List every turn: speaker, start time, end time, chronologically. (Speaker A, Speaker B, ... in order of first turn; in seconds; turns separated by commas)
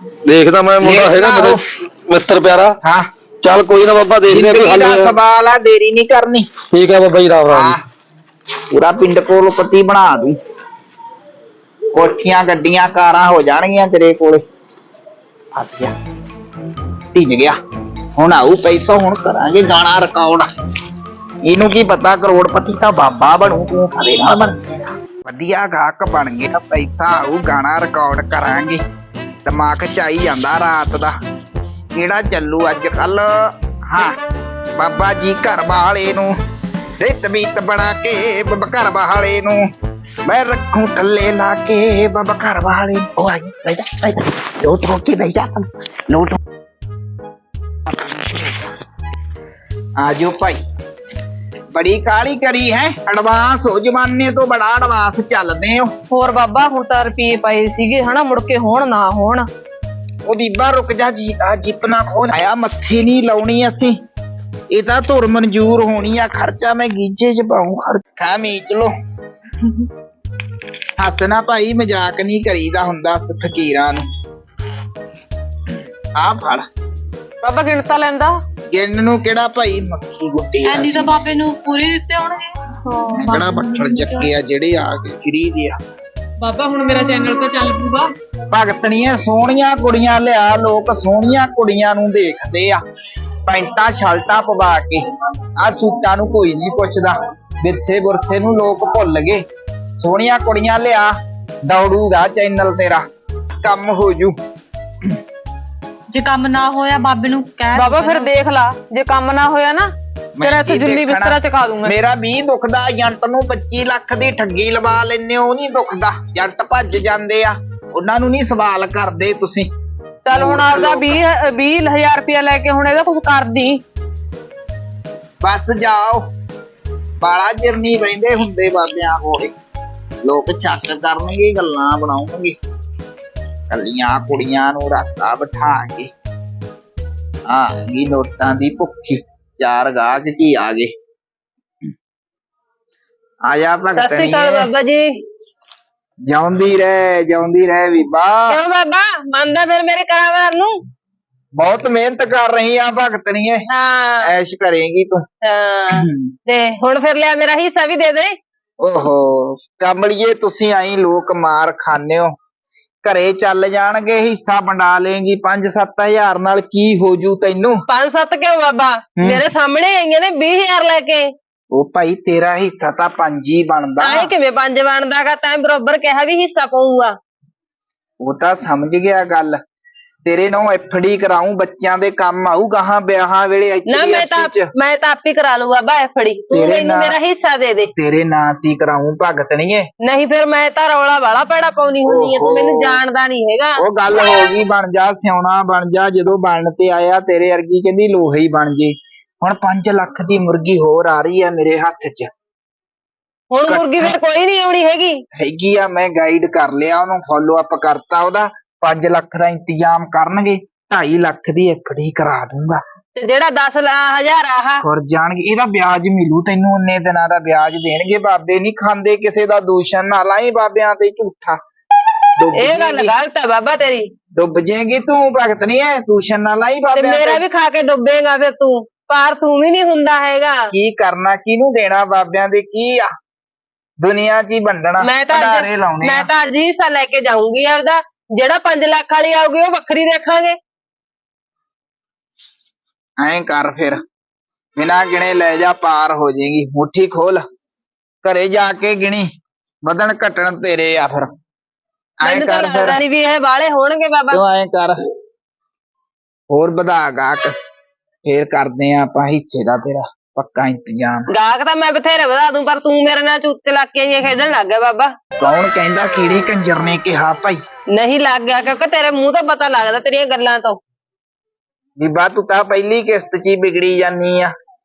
Speaker A: 0.3-2.8, Speaker B: 0.8-1.6, Speaker B: 2.8-3.1, Speaker A: 3.4-5.2, Speaker B: 4.3-6.5, Speaker A: 6.7-7.8, Speaker B: 7.5-7.8, Speaker B: 8.7-10.4, Speaker B: 11.9-14.4, Speaker B: 15.6-16.0, Speaker B: 17.1-17.6, Speaker B: 18.2-20.5, Speaker B: 21.5-28.8, Speaker B: 29.4-31.1, Speaker B: 31.9-34.2, Speaker B: 34.8-36.4, Speaker B: 37.0-39.7, Speaker B: 40.3-46.4, Speaker B: 47.9-48.7, Speaker B: 50.0-50.6, Speaker B: 51.7-55.9, Speaker C: 56.1-59.5, Speaker B: 60.3-64.0, Speaker B: 64.7-68.9, Speaker B: 71.0-74.1, Speaker B: 76.2-76.7, Speaker C: 77.4-78.4, Speaker B: 78.7-81.2, Speaker D: 80.7-84.3, Speaker B: 83.1-85.8, Speaker C: 86.4-88.1, Speaker B: 88.5-92.8, Speaker B: 93.5-95.0, Speaker B: 95.6-99.5, Speaker B: 100.0-104.4, Speaker D: 106.1-108.3, Speaker C: 107.8-111.9, Speaker B: 110.4-119.7, Speaker C: 120.3-123.8, Speaker B: 120.3-121.2, Speaker B: 125.4-126.3, Speaker B: 127.2-129.6, Speaker B: 130.2-132.6, Speaker B: 133.7-136.1, Speaker B: 137.5-140.9, Speaker B: 143.5-144.7, Speaker E: 144.0-145.1, Speaker B: 146.3-148.6, Speaker E: 148.5-150.8, Speaker B: 151.6-153.7, Speaker E: 153.7-154.3, Speaker B: 154.2-155.2, Speaker E: 155.4-158.3, Speaker B: 155.9-156.3, Speaker B: 158.8-162.3, Speaker B: 163.0-167.8, Speaker E: 167.9-171.3, Speaker B: 171.7-174.3, Speaker E: 174.0-177.2, Speaker B: 178.2-179.6, Speaker B: 180.2-184.7, Speaker E: 183.9-187.9, Speaker B: 186.5-187.2, Speaker B: 188.0-189.9, Speaker E: 190.0-193.8, Speaker B: 192.1-193.0, Speaker B: 193.8-202.3, Speaker E: 203.5-205.2, Speaker B: 203.7-204.2, Speaker B: 205.4-212.8, Speaker E: 213.2-214.8, Speaker B: 214.8-221.6, Speaker B: 222.4-223.1, Speaker E: 222.6-224.1, Speaker B: 224.4-227.4, Speaker E: 226.9-230.7, Speaker B: 230.7-233.1, Speaker B: 234.0-236.3, Speaker E: 235.0-240.6, Speaker B: 243.2-244.0, Speaker B: 244.8-247.4, Speaker B: 248.2-249.3, Speaker B: 249.9-251.3, Speaker B: 252.2-253.0, Speaker E: 252.2-254.4, Speaker B: 254.3-255.0, Speaker B: 256.5-257.5, Speaker B: 258.2-261.3, Speaker E: 261.3-265.1, Speaker B: 265.4-267.6, Speaker E: 267.9-270.8, Speaker B: 272.0-274.5